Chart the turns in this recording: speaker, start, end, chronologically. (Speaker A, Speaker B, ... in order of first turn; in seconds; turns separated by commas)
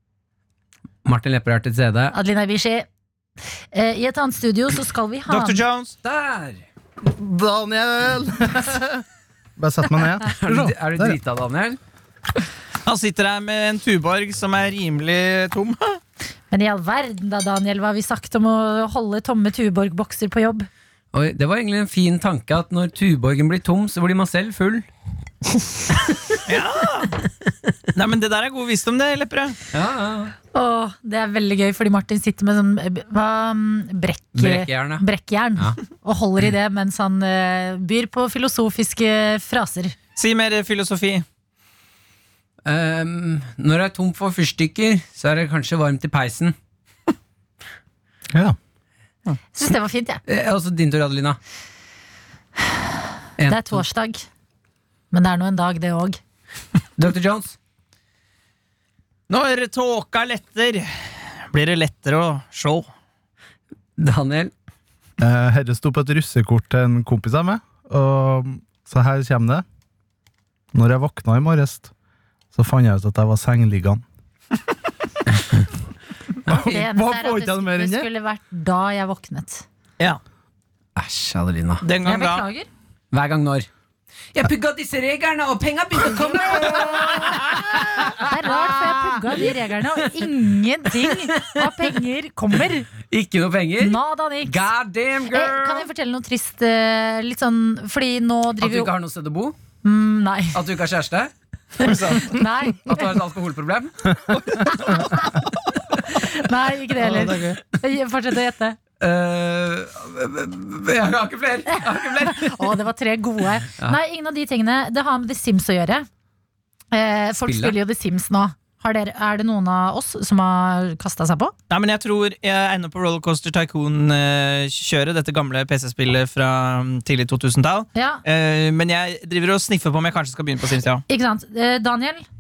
Speaker A: 1.0-2.1, Speaker B: 2.1-2.9, Speaker B: 3.7-5.6, Speaker C: 5.3-6.0, Speaker A: 6.0-6.6, Speaker D: 7.0-9.0, Speaker D: 9.6-11.2, Speaker A: 10.2-11.8, Speaker C: 12.9-16.0, Speaker B: 16.5-20.7, Speaker A: 21.1-24.9, Speaker C: 26.5-27.2, Speaker C: 27.9-29.6, Speaker A: 29.7-30.3, Speaker B: 30.5-40.0, Speaker A: 34.3-35.0, Speaker C: 40.2-41.2, Speaker A: 42.6-46.5, Speaker B: 49.5-50.2, Speaker A: 50.2-51.4, Speaker A: 53.4-53.8, Speaker B: 53.5-54.2, Speaker B: 55.1-56.2, Speaker A: 57.0-57.6, Speaker C: 59.3-60.9, Speaker C: 61.5-62.9, Speaker A: 64.0-64.5, Speaker D: 65.2-69.6, Speaker D: 70.7-71.9, Speaker D: 72.5-74.0, Speaker D: 76.5-78.1, Speaker B: 76.5-79.6, Speaker A: 81.0-81.8, Speaker C: 81.8-82.4, Speaker B: 82.0-82.7, Speaker A: 83.1-83.7, Speaker A: 84.3-89.5, Speaker B: 88.2-92.9, Speaker A: 90.9-92.0, Speaker A: 93.1-95.9, Speaker B: 93.8-94.7, Speaker B: 95.3-98.9, Speaker A: 98.6-99.6, Speaker B: 99.8-100.6, Speaker A: 100.5-101.3, Speaker C: 101.8-102.4, Speaker B: 101.8-103.2, Speaker A: 102.9-104.1, Speaker C: 104.3-105.8, Speaker B: 106.1-108.8, Speaker C: 107.1-107.5, Speaker A: 109.0-112.8, Speaker B: 111.7-116.1, Speaker B: 116.9-121.5, Speaker A: 117.5-117.8, Speaker C: 121.7-131.0, Speaker B: 128.0-128.2, Speaker B: 131.1-132.2